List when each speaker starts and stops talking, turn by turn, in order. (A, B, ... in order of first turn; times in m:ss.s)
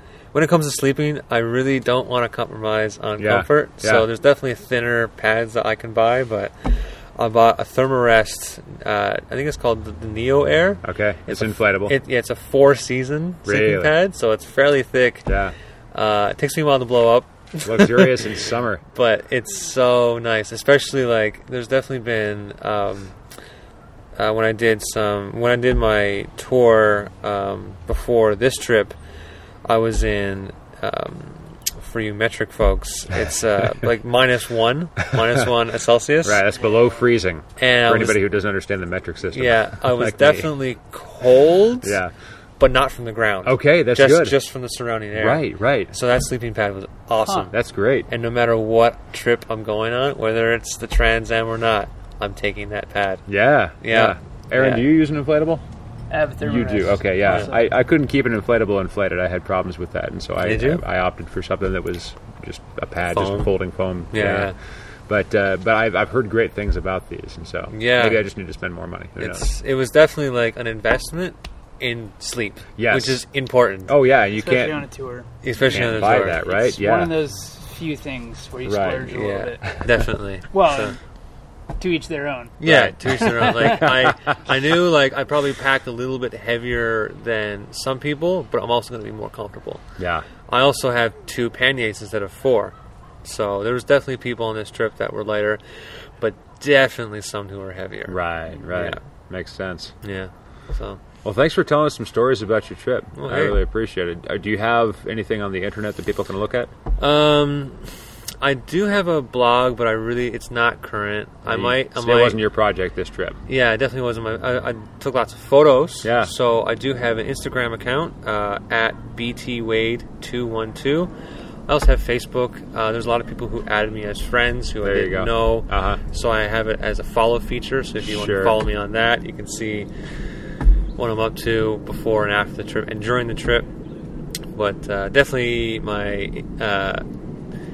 0:00.3-0:15.3 A
0:03.2-0:04.0 B
0:10.8-0:11.9 B
0:13.4-0:13.9 B
0:15.2-0:15.5 B
0:15.9-0:18.4 A
0:17.6-0:18.8 B
0:18.9-0:23.2 A
0:24.2-0:29.0 A
0:29.6-0:36.4 A
0:35.1-0:35.5 B
0:36.2-0:40.5 B
0:36.6-0:37.0 C
0:37.6-0:38.2 A
0:39.3-0:42.0 A
0:41.8-0:42.1 B
0:42.6-0:47.5 A
0:43.4-0:44.4 B
0:45.2-0:45.9 B
0:47.5-0:48.1 B
0:48.1-0:53.3 A
0:53.3-0:55.6 B
0:53.8-0:54.8 A
0:56.1-0:57.6 C
0:56.4-1:04.5 B
1:00.4-1:00.8 A
1:03.1-1:03.5 A
1:04.1-1:04.5 A
1:05.1-1:09.5 B
1:07.7-1:08.2 A
1:09.2-1:13.9 A
1:12.8-1:13.2 B
1:13.9-1:14.8 B
1:14.3-1:19.8 C
1:15.4-1:16.5 A
1:15.7-1:17.2 B
1:18.6-1:19.1 B
1:19.1-1:21.0 A
1:20.5-1:21.0 C
1:21.8-1:22.6 C
1:22.6-1:29.8 A
1:22.6-1:24.2 B
1:23.2-1:23.8 C
1:30.0-1:30.2 B
1:30.5-1:39.0 A
1:38.1-1:40.0 B
1:40.0-1:41.0 A
1:41.2-1:46.7 B
1:43.2-1:43.6 A
1:47.0-1:52.4 A
1:51.4-1:53.4 B
1:53.5-2:01.1 A
1:56.0-1:56.3 B
2:01.7-2:09.9 A
2:04.8-2:06.0 B
2:08.0-2:08.6 B
2:11.0-2:13.7 A
2:14.5-2:17.0 A